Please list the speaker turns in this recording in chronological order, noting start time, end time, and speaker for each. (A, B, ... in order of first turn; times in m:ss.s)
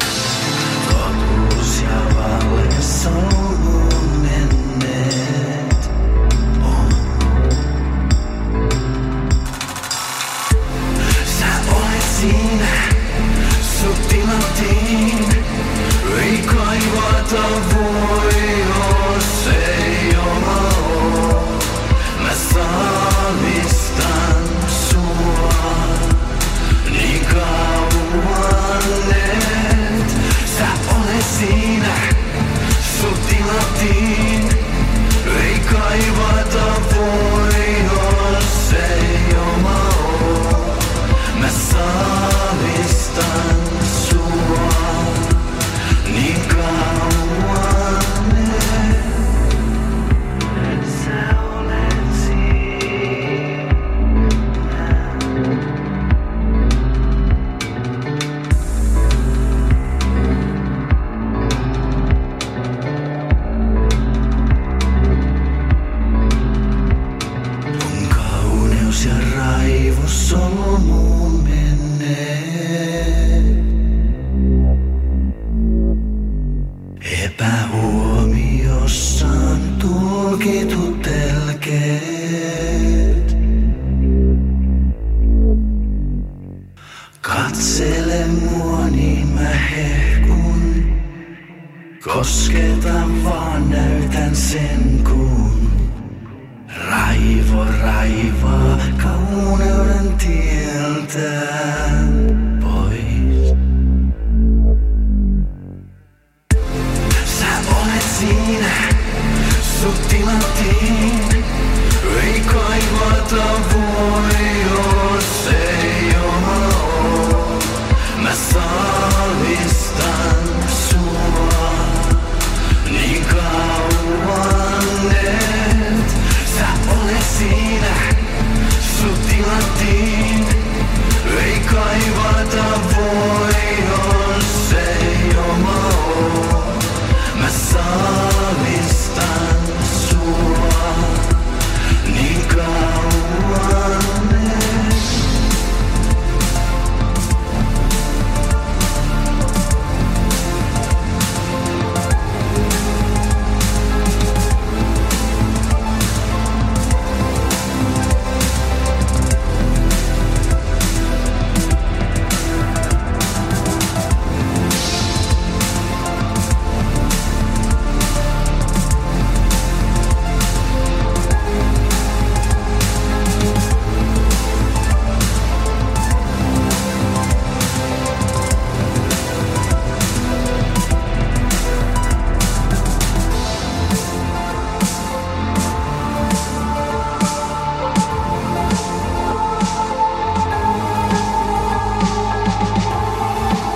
0:00.8-0:05.6 A
0:06.6-0:06.9 A
0:11.2-0:13.0 A
0:13.6-0:15.4 A
0:16.0-0:26.3 A
0:26.9-0:32.2 A
0:32.8-0:34.6 A
0:35.2-0:45.5 A
0:46.0-0:49.1 A
0:50.8-0:52.3 A
1:07.8-1:12.8 A
1:17.1-1:22.6 A
1:27.2-1:30.9 A
1:32.0-1:35.6 A
1:36.8-1:42.0 A
1:42.6-1:43.3 A
1:47.2-1:49.0 A
1:49.5-1:51.4 A
1:52.0-2:02.3 A
2:02.8-2:08.1 A
2:08.8-2:10.6 A
2:11.2-2:21.5 A
2:22.0-2:25.1 A